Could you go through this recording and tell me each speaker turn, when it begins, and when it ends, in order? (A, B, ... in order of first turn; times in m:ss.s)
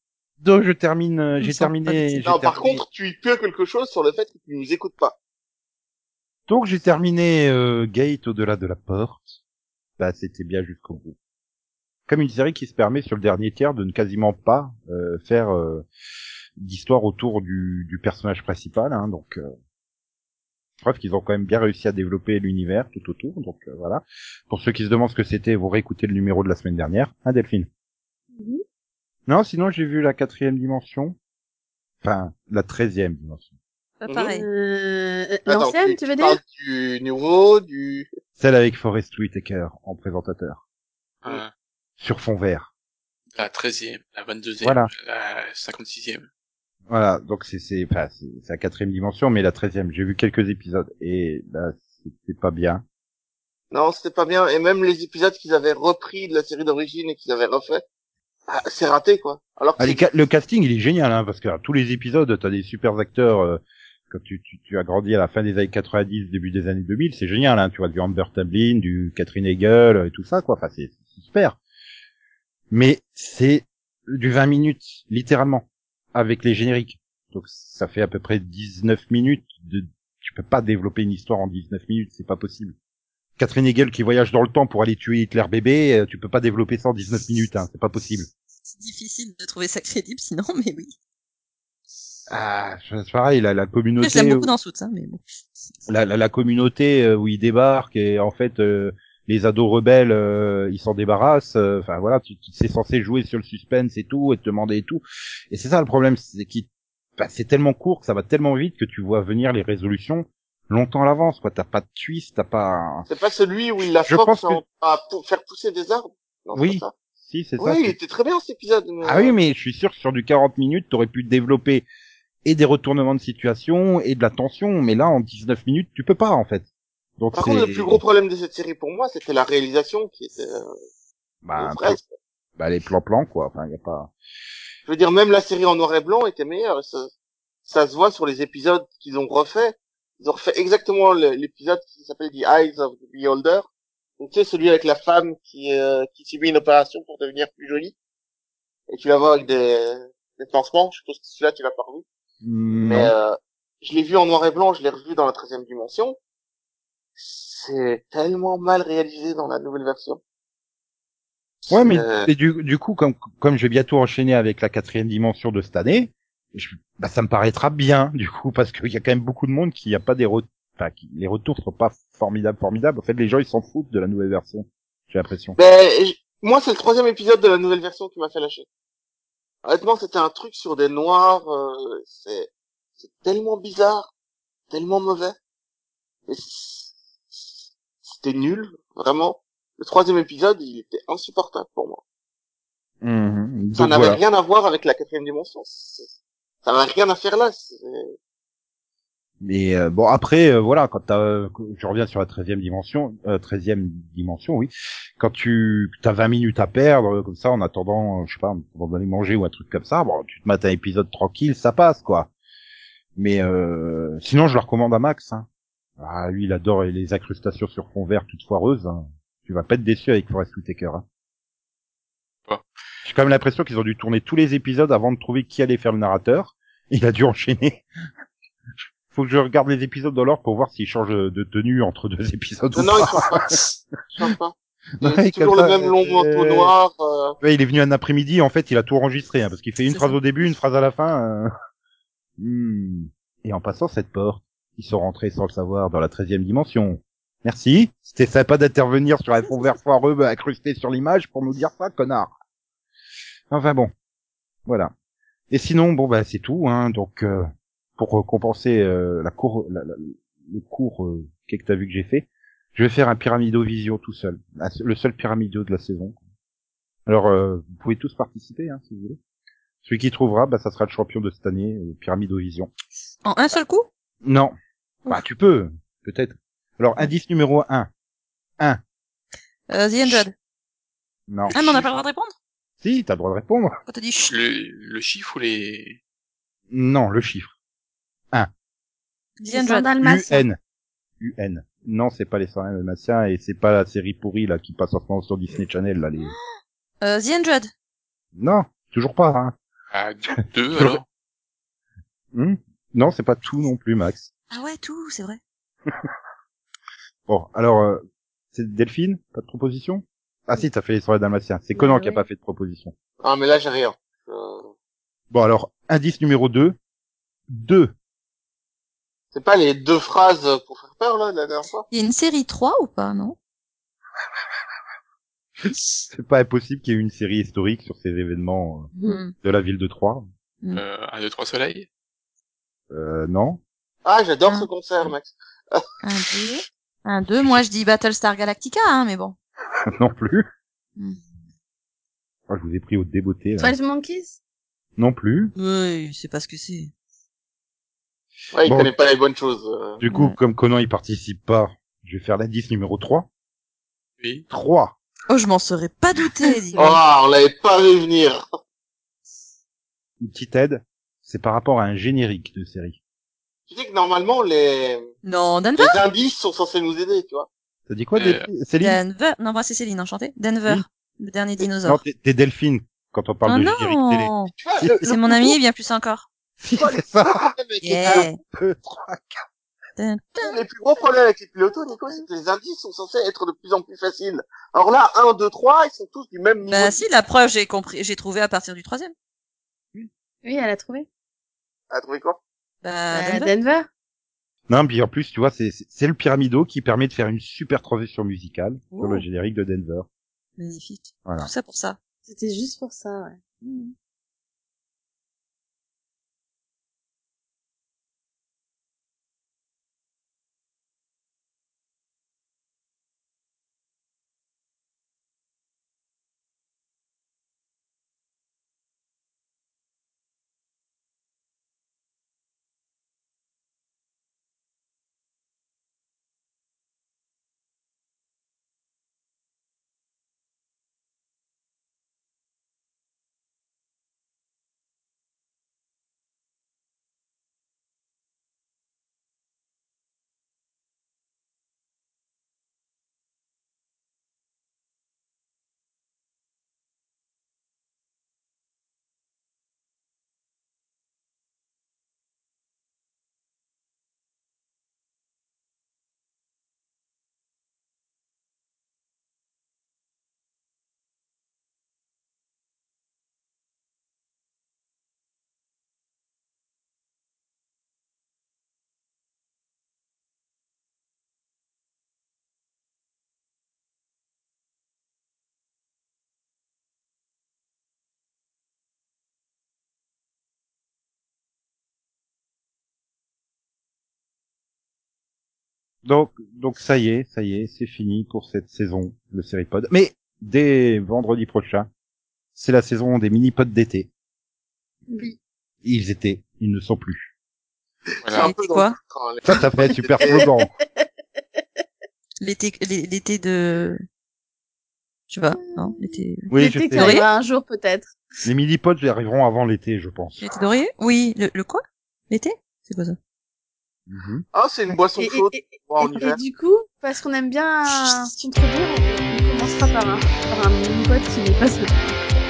0:00.4-0:02.8 A
0:01.4-0:02.2 B
0:02.2-0:05.2 C
0:06.5-0:09.4 A
0:10.0-0:11.2 A
0:12.1-0:15.8 A
0:16.6-0:19.5 A
0:20.8-0:27.7 A
0:28.3-0:28.6 D
0:29.3-0:31.2 A
0:32.0-0:33.5 A
0:34.0-0:34.5 B
0:34.3-0:36.4 D
0:35.5-0:38.1 C
0:38.4-0:40.6 A
0:41.2-0:41.5 E
0:42.0-0:42.7 A
0:43.4-0:46.3 E
0:44.6-0:44.9 A
0:46.9-0:52.8 A
0:53.7-0:57.8 C
0:58.5-1:00.0 C
0:59.8-1:11.6 A
1:12.7-1:22.8 A
1:23.4-1:28.3 A
1:28.7-1:30.9 B
1:32.3-1:34.5 A
1:34.0-1:35.2 B
1:35.9-1:53.1 A
1:53.1-1:56.9 C
1:54.0-1:54.6 A
1:56.6-1:58.0 A
1:57.6-1:59.4 C
1:59.0-2:01.8 A
2:02.4-2:06.7 A
2:07.2-2:08.0 A
2:07.3-2:10.7 C
2:11.4-2:12.0 A
2:11.6-2:12.1 C
2:12.6-2:14.1 A
2:14.9-2:17.1 C
2:17.7-2:28.0 C
2:28.9-2:32.0 C
2:32.4-2:33.1 A
2:32.8-2:36.2 C
2:37.2-2:40.2 C
2:41.6-2:42.3 C
2:41.7-2:55.6 A
2:55.6-2:58.7 C
2:59.6-3:04.1 C
3:04.7-3:05.4 C
3:06.3-3:06.9 C
3:08.0-3:12.0 C
3:13.0-3:14.2 A
3:13.8-3:16.1 C
3:16.6-3:18.1 C
3:19.4-3:32.3 A
3:33.2-3:35.5 A
3:36.0-3:41.0 A
3:43.0-3:47.8 A
3:49.1-3:53.2 A
3:52.8-3:53.6 C
3:54.1-3:57.4 C
3:55.0-3:56.7 A
3:57.4-4:01.5 A
3:59.9-4:00.2 B
4:02.4-4:12.3 A
4:13.5-4:13.9 A
4:14.7-4:14.9 A
4:15.5-4:26.2 A
4:27.1-4:29.2 A
4:29.8-4:32.7 A
4:33.2-4:33.9 B
4:34.2-4:34.5 A
4:35.1-4:37.9 A
4:39.7-4:40.3 B
4:41.3-4:41.9 A
4:41.5-4:42.3 B
4:42.8-4:43.8 A
4:43.9-4:44.4 B
4:44.3-4:46.0 E
4:46.7-4:47.5 A
4:49.4-4:49.9 B
4:49.5-4:50.4 D
4:50.0-4:50.6 A
4:51.2-4:56.4 A
4:57.0-4:57.7 B
4:58.4-4:59.6 A
4:59.9-5:01.0 E
5:00.8-5:01.0 A
5:02.3-5:04.3 A
5:04.5-5:05.4 B
5:07.3-5:12.9 A
5:11.7-5:12.2 D
5:13.2-5:14.7 C
5:15.3-5:16.8 A
5:17.5-5:17.9 A
5:19.3-5:21.9 C
5:21.9-5:23.4 B
5:26.1-5:28.9 A
5:29.0-5:29.3 B
5:29.4-5:30.3 A
5:30.7-5:31.9 E
5:32.9-5:33.6 A
5:34.0-5:35.8 C
5:36.0-5:39.4 B
5:37.4-5:37.6 A
5:40.0-5:40.5 A
5:42.5-5:43.7 A
5:43.6-5:44.4 D
5:45.0-5:45.5 A
5:45.6-5:46.9 B
5:48.5-5:50.0 C
5:48.7-5:48.9 A
5:50.0-5:53.3 A
5:50.1-5:50.4 B
5:54.2-5:54.4 E
5:54.5-5:55.0 A
5:55.3-5:57.0 B
5:56.8-5:58.4 C
6:00.2-6:03.0 A
6:03.7-6:05.1 C
6:05.2-6:06.0 B
6:05.8-6:07.5 C
6:07.9-6:09.0 A
6:08.2-6:08.5 E
6:08.8-6:12.0 B
6:11.6-6:15.6 A
6:13.5-6:16.3 B
6:14.6-6:15.0 C
6:16.6-6:17.5 A
6:16.8-6:18.3 C
6:17.8-6:18.4 B
6:18.0-6:19.4 A
6:20.0-6:20.6 B
6:20.4-6:27.0 C
6:26.7-6:29.1 B
6:30.4-6:31.1 D
6:31.9-6:32.4 C
6:32.8-6:33.5 B
6:33.1-6:33.9 D
6:34.7-6:40.1 A
6:38.9-6:39.2 B
6:40.6-6:42.0 B
6:42.3-6:43.4 D
6:43.6-6:43.9 B
8:06.0-8:11.9 A
8:12.6-8:14.1 A
8:15.1-8:15.4 D
8:15.8-8:17.3 A
8:18.1-8:20.5 C
8:18.2-8:18.5 E
8:18.4-8:19.0 B
8:19.5-8:20.7 A
8:22.4-8:24.0 B
8:25.3-8:27.3 B
8:25.6-8:28.2 D
8:26.5-8:27.2 A
8:28.4-8:30.6 A
8:30.4-8:33.2 B
8:34.1-8:34.4 A
8:34.5-8:36.4 C
8:35.2-8:42.2 D